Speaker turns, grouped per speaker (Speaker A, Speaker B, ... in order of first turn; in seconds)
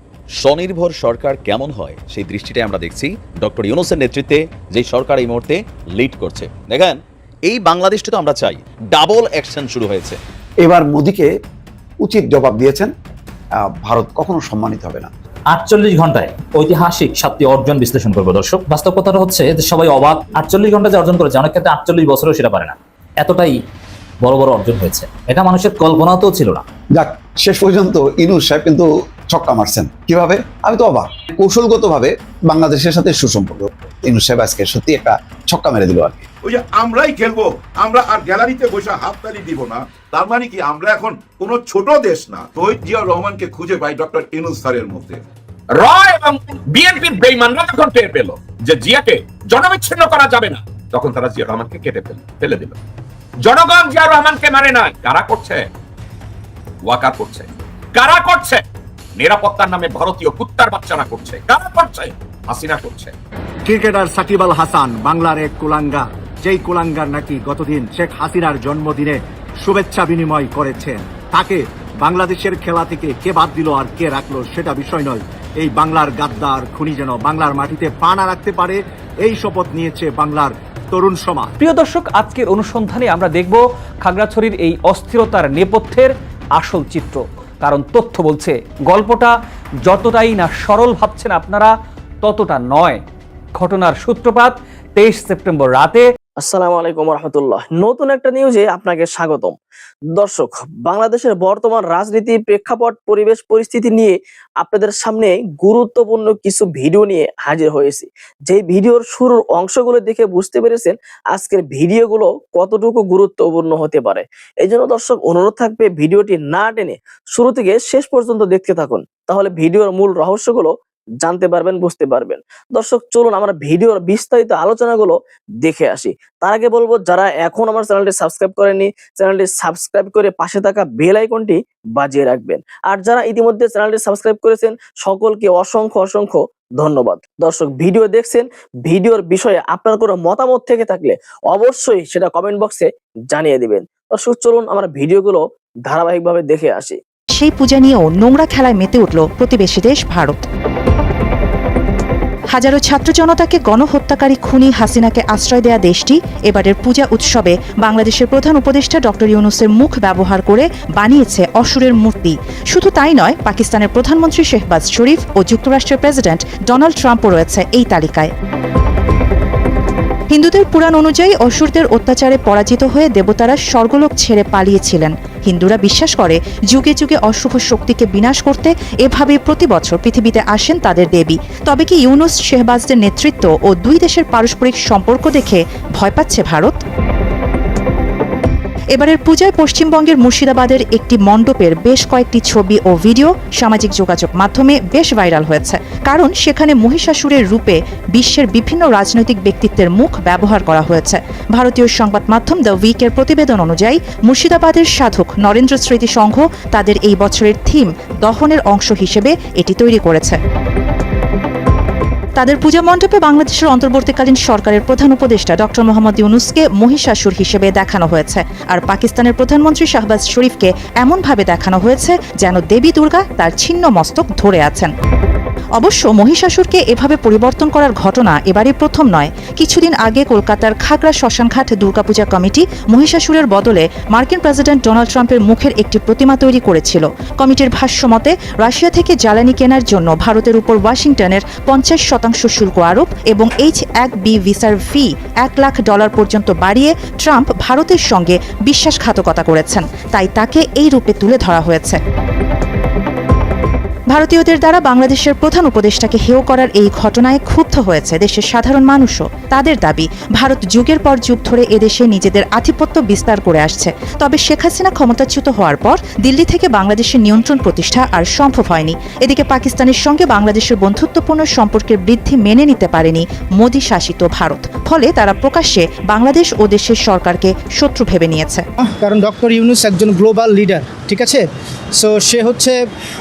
Speaker A: 0.4-10.2
Speaker B: 10.6-11.3, 12.1-12.9, 13.8-15.1, 27.0-36.2
Speaker C: 15.5-23.6, 24.2-26.6
Speaker D: 36.5-45.2
Speaker E: 45.7-52.8, 53.4-55.7, 56.9-58.6, 59.2-63.1
Speaker F: 63.7-81.6
Speaker G: 81.6-93.0, 93.5-96.1
Speaker H: 96.4-99.6, 100.1-147.0
Speaker I: 147.4-150.4, 152.5-168.3, 170.3-186.8, 188.9-210.4, 212.4-224.9, 225.8-252.0, 254.1-278.6
Speaker J: 279.0-281.4, 282.0-282.8